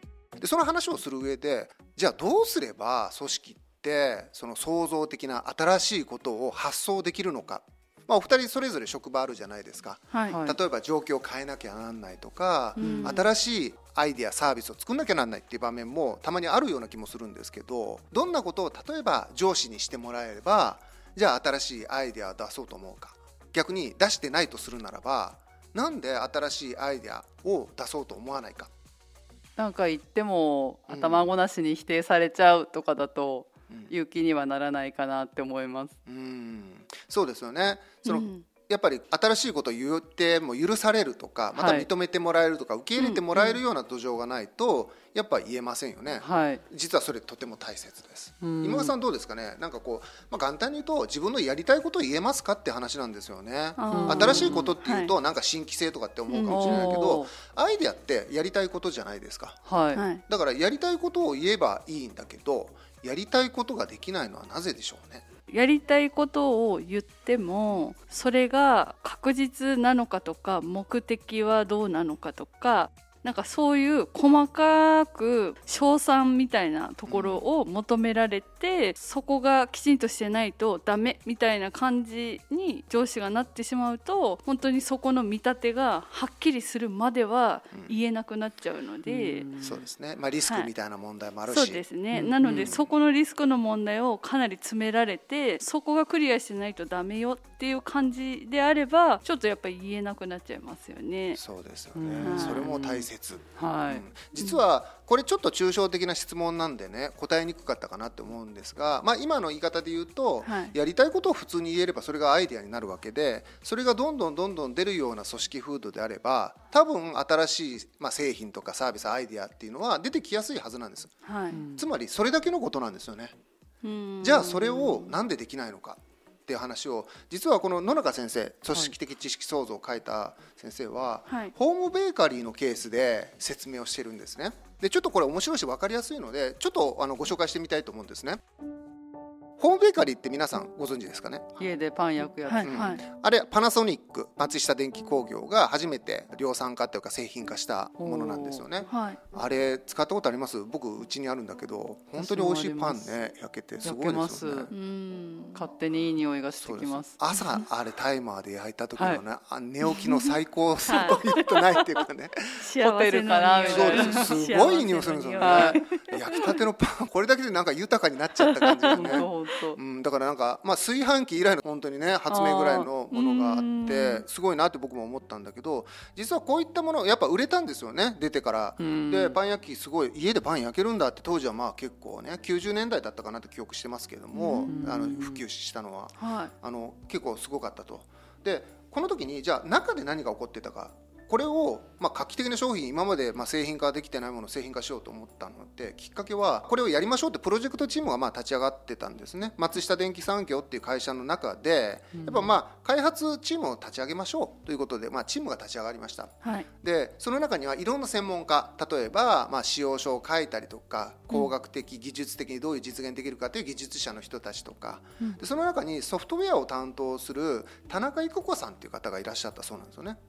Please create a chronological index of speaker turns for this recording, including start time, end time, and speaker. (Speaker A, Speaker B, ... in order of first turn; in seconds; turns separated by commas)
Speaker A: 0.4-28.7, Speaker B: 10.3-10.6, Speaker C: 12.8-13.2, Speaker B: 12.8-13.2, Speaker B: 29.6-35.9, Speaker A: 30.9-31.3, Speaker A: 36.0-59.6, Speaker C: 38.0-38.4, Speaker B: 41.5-41.9, Speaker C: 43.0-43.6, Speaker B: 46.2-46.6, Speaker B: 48.4-48.9, Speaker C: 53.8-55.1, Speaker B: 53.9-54.7, Speaker C: 56.3-56.9, Speaker B: 56.5-57.3, Speaker B: 59.6-60.0, Speaker C: 59.9-60.2, Speaker A: 60.3-65.2, Speaker C: 65.5-89.5, Speaker A: 77.0-77.4, Speaker B: 89.0-89.8, Speaker A: 89.6-91.8, Speaker C: 91.5-101.4, Speaker B: 92.1-92.7, Speaker A: 92.4-92.9, Speaker A: 101.4-121.1, Speaker B: 101.9-104.0, Speaker C: 102.2-102.7, Speaker C: 104.3-104.6, Speaker C: 110.4-110.7, Speaker C: 121.2-121.6, Speaker B: 121.5-121.8, Speaker A: 121.7-123.3, Speaker C: 123.8-125.1, Speaker A: 124.2-138.4, Speaker A: 139.6-141.6, Speaker B: 141.6-142.8, Speaker C: 142.5-143.0, Speaker A: 142.6-154.7, Speaker B: 148.0-148.6, Speaker C: 148.9-149.2, Speaker B: 152.2-153.1, Speaker B: 153.8-154.7, Speaker C: 154.7-155.6, Speaker B: 155.5-157.2, Speaker A: 156.6-162.6, Speaker B: 158.9-159.2, Speaker C: 159.9-160.3, Speaker C: 160.9-161.8, Speaker C: 162.6-166.6, Speaker B: 162.8-164.3, Speaker A: 163.6-220.2, Speaker B: 165.4-165.8, Speaker C: 168.8-169.3, Speaker B: 168.9-169.8, Speaker B: 172.3-172.9, Speaker C: 173.1-174.2, Speaker B: 178.8-179.4, Speaker C: 184.3-184.8, Speaker B: 184.7-185.4, Speaker C: 186.2-186.5, Speaker B: 202.1-202.5